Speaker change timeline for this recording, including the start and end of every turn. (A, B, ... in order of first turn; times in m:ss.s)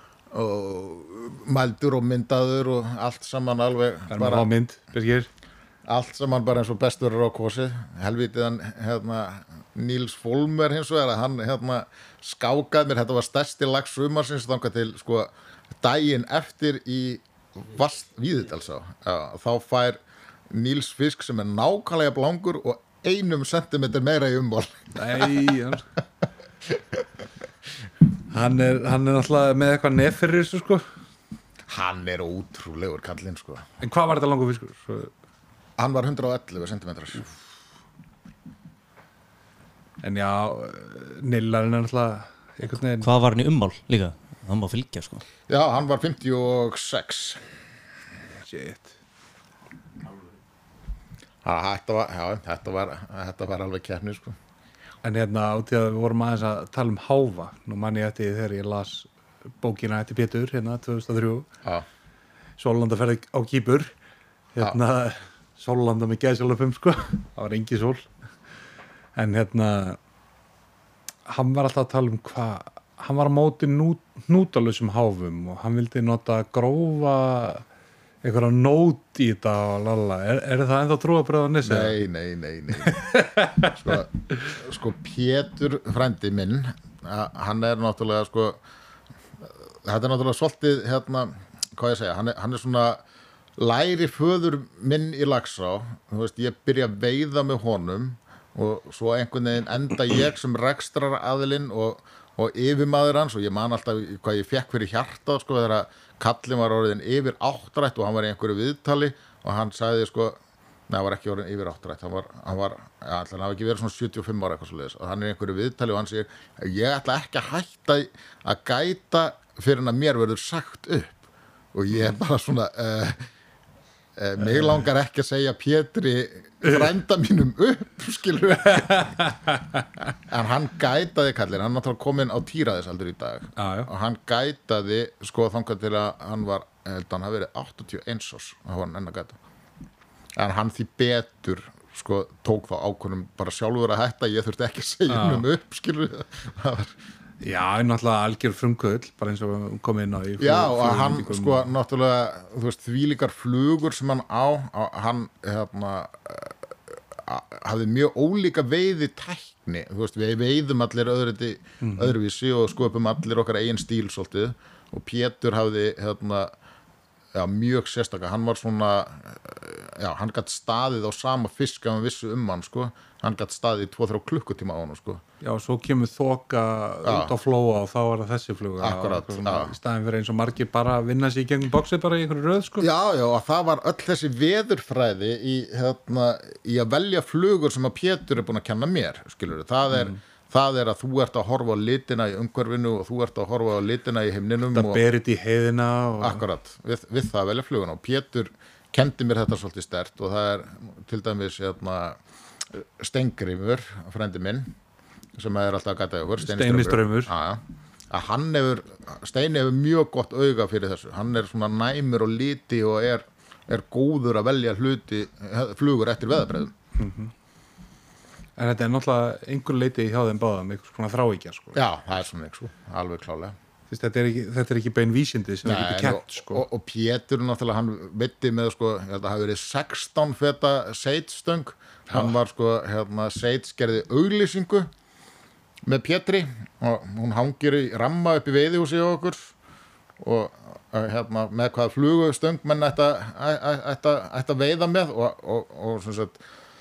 0:00.3-0:04.5 A
0:04.1-0:05.3 B
0:05.8-0:20.0 A
0:20.5-0:25.4 A
0:24.9-0:25.9 B
0:26.7-0:27.0 A
0:28.3-0:30.9 B
0:31.7-0:33.7 A
0:33.8-0:35.1 B
0:35.8-0:37.2 A
0:40.0-0:43.1 B
0:43.0-0:45.2 C
0:45.5-0:47.4 A
0:48.4-0:48.9 B
0:51.4-0:54.4 A
0:55.0-0:59.1 B
0:59.6-1:01.5 B
1:02.6-1:03.9 B
1:04.5-1:08.1 B
1:09.2-1:10.0 B
1:11.2-1:17.6 B
1:18.2-1:22.0 B
1:21.6-1:28.6 A
1:22.8-1:24.5 B
1:29.8-1:33.0 A
1:33.6-2:01.2 A
2:01.7-2:03.3 A
2:04.2-2:09.2 A
2:04.4-2:04.8 B
2:06.6-2:06.9 B
2:08.8-2:09.8 B
2:10.2-2:19.4 A
2:13.6-2:13.9 B
2:20.4-2:26.9 A
2:25.1-2:25.4 B
2:27.4-2:31.7 B
2:30.4-2:36.6 A
2:37.1-2:46.5 A
2:41.8-2:42.1 B
2:47.3-2:55.2 A
2:55.4-3:02.9 B
2:57.0-2:57.3 A
2:58.8-2:59.7 A
3:02.8-3:15.0 A
3:09.9-3:10.2 B
3:14.7-3:16.4 B
3:16.2-3:22.2 A
3:22.7-3:24.7 A
3:25.4-3:36.7 A
3:26.4-3:27.3 B
3:37.0-3:37.3 B
3:38.6-3:41.8 B
3:41.7-3:43.6 A
3:43.9-3:46.6 B
3:45.6-3:54.9 A
3:55.8-3:59.5 A
4:00.2-4:06.4 A